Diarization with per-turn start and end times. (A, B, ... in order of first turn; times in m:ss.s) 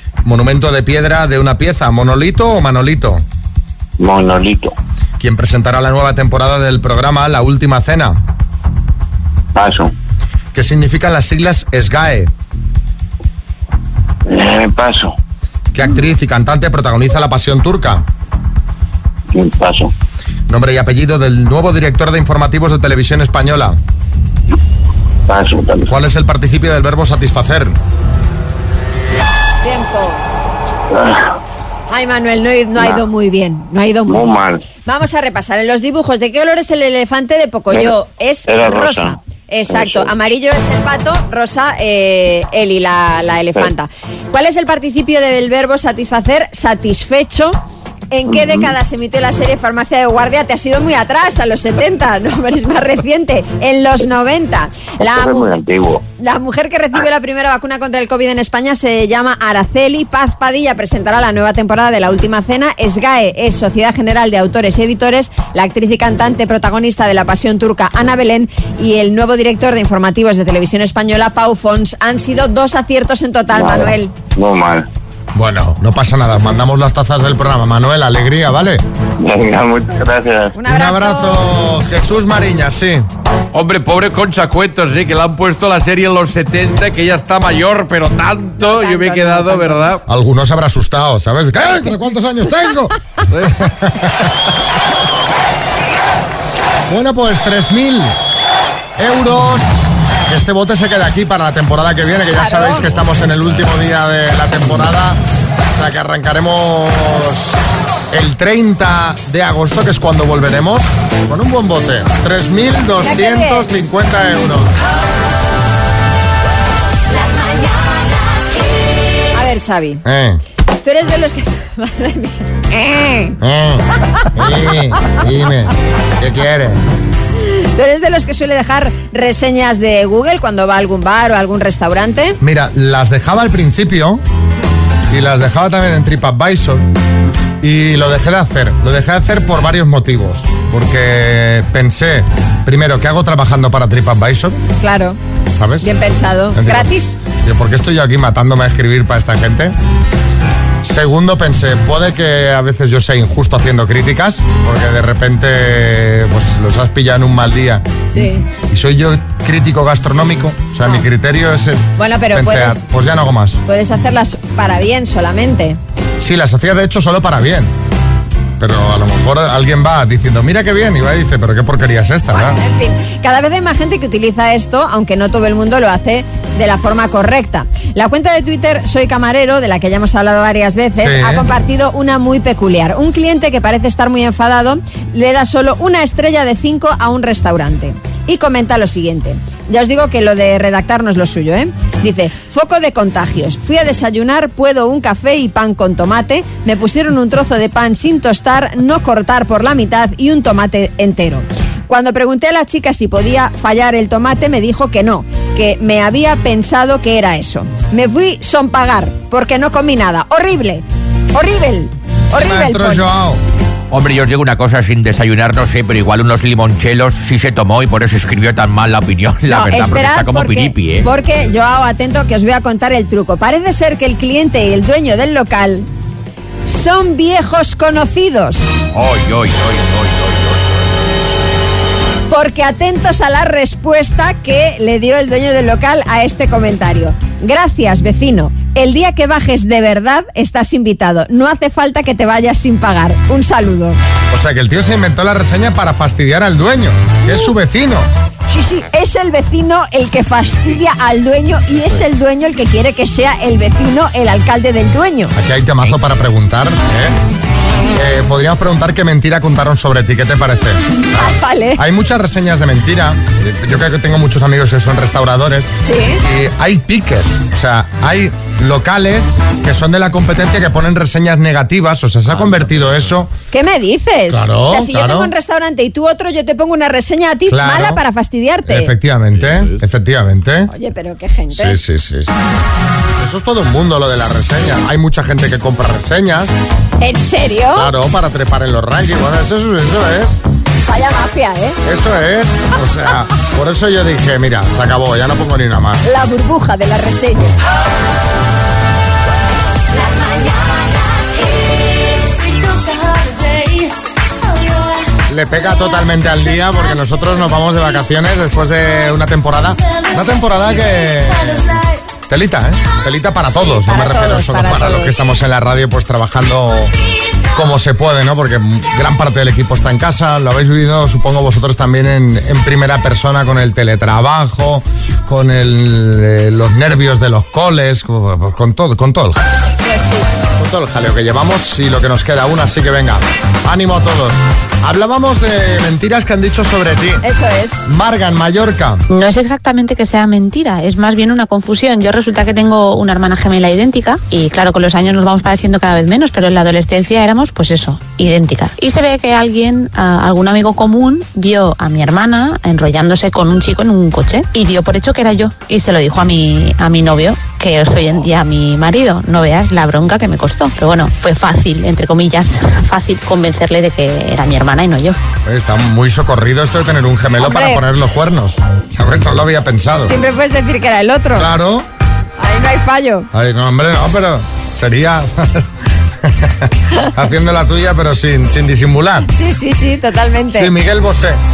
0:00.2-0:03.2 A
0:04.0-0:04.8 B
0:05.2-0:08.2 A
0:09.6-0:09.9 B
0:10.5-0:12.3 A
0:14.3-0:15.2 B
0:15.7-0:18.0 A
0:19.3-0:19.9 B
0:20.5-0:23.8 A
0:25.3-0:25.9 B
0:25.9-0:27.8 A
0:29.6-0:30.2 C
0:30.9-0:31.3 B
0:31.9-0:47.6 C
0:32.8-0:33.0 B
0:34.1-0:34.6 B
0:38.5-0:39.2 B
0:39.7-0:40.1 B
0:48.1-0:55.6 C
0:48.3-0:48.7 B
0:55.0-0:56.0 B
0:56.2-1:14.1 C
1:13.5-1:14.9 B
1:15.3-1:18.8 A
1:19.2-1:20.6 B
1:20.6-1:21.4 C
1:20.7-1:23.1 A
1:23.5-1:30.0 D
1:28.6-1:30.0 C
1:30.1-1:34.3 A
1:33.3-1:33.7 D
1:36.9-1:38.2 A
1:39.0-1:45.2 A
1:42.4-1:42.9 C
1:45.7-1:47.6 A
1:48.1-1:54.8 A
1:53.0-1:53.7 C
1:59.3-2:00.0 C
2:00.0-2:00.4 A
2:00.8-2:03.4 C
2:03.4-2:06.8 A
2:07.4-2:12.4 C
2:12.4-2:14.2 A
2:15.1-2:16.9 A
2:17.6-2:24.6 A
2:24.8-2:25.2 C
2:25.6-2:25.9 A
2:25.8-2:27.2 C
2:26.5-2:29.8 A
2:30.8-2:43.6 A
2:38.1-2:38.5 C
2:42.0-2:42.8 C
2:43.7-2:45.8 C
2:46.2-2:47.7 A
2:48.6-2:52.6 A
2:52.3-3:33.0 C
3:01.0-3:01.5 A
3:32.3-3:33.4 A
3:33.9-3:41.1 E
3:39.5-3:45.9 C
3:46.7-3:48.8 C
3:48.9-3:50.9 E
3:52.3-4:04.0 C
4:04.3-4:08.1 A
4:08.5-4:15.3 C
4:15.3-4:17.2 A
4:17.9-4:33.3 A
4:21.2-4:21.8 C
4:25.8-4:26.2 C
4:32.4-4:33.0 D
4:33.5-4:38.9 C
4:34.3-4:35.3 A
4:37.5-4:38.0 A
4:38.7-4:40.7 A
4:39.4-4:39.8 D
4:40.7-4:41.8 C
4:41.5-4:42.3 A
4:43.2-4:46.5 A
4:47.0-4:47.9 C
4:47.7-4:50.4 A
4:50.8-4:51.8 C
4:51.8-4:56.0 A
4:56.0-4:57.6 C
5:05.3-5:16.9 A
5:13.5-5:15.2 C
5:17.5-5:29.4 A
5:29.8-5:30.3 C
5:30.6-5:37.2 A
5:37.2-5:37.9 C
5:37.9-5:39.0 A
5:39.1-6:05.2 F
6:05.4-6:10.2 A
6:07.4-6:07.8 C
6:10.0-6:11.5 C
6:11.4-6:11.9 A
6:12.4-6:13.3 C
6:13.3-6:15.7 A
6:16.2-6:19.3 A
6:19.3-6:20.7 C
6:20.5-6:21.4 A